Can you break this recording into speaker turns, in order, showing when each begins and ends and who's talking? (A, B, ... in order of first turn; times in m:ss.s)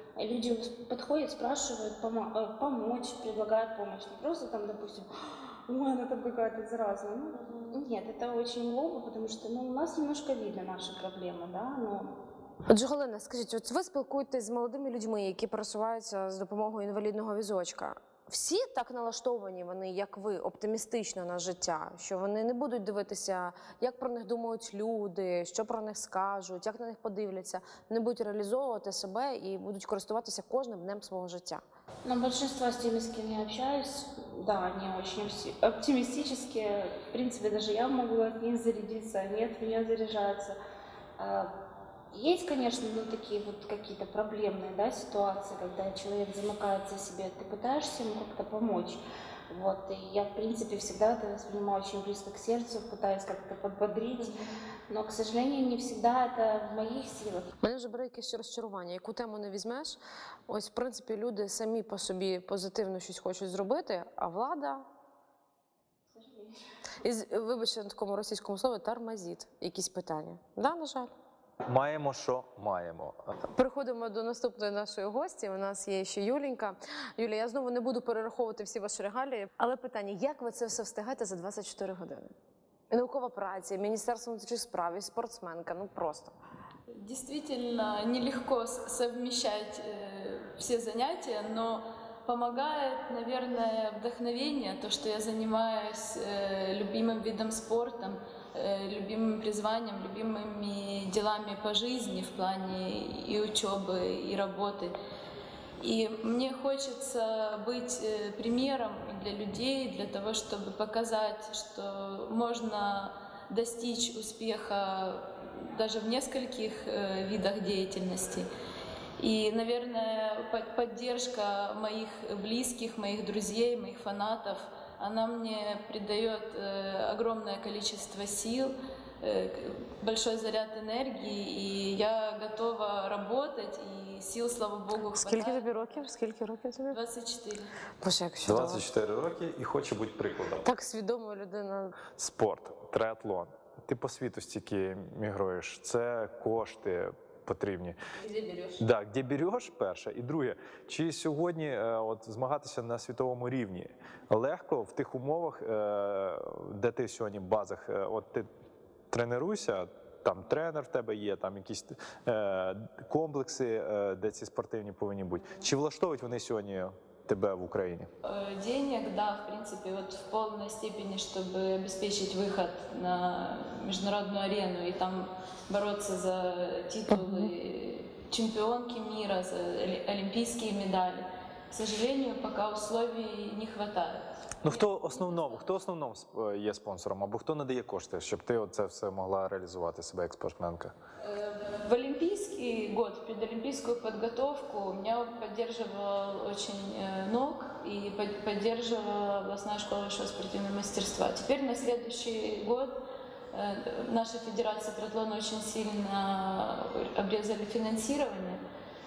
0:00.2-0:12.1 A
0:12.7-0:31.6 B
0:32.0-0:40.6 A
0:41.2-0:41.5 A
0:42.1-0:54.4 A
0:54.9-0:57.5 A
0:57.6-1:04.8 B
1:06.2-1:06.6 A
1:07.0-1:11.1 B
1:11.6-1:13.2 C
1:13.6-1:22.3 B
1:22.9-1:26.4 B
1:27.0-1:44.9 D
1:45.8-1:58.5 D
1:59.2-2:16.1 D
2:15.2-2:17.0 B
2:16.9-2:17.7 D
2:18.0-2:18.8 B
2:18.4-2:20.7 C
2:20.6-2:22.0 B
2:22.2-2:28.0 C
2:28.2-2:28.8 B
2:28.8-2:38.5 C
2:39.1-2:48.1 C
2:48.2-3:05.7 D
2:57.1-2:57.5 B
3:04.6-3:10.9 C
3:11.2-3:23.0 D
3:23.5-3:28.6 D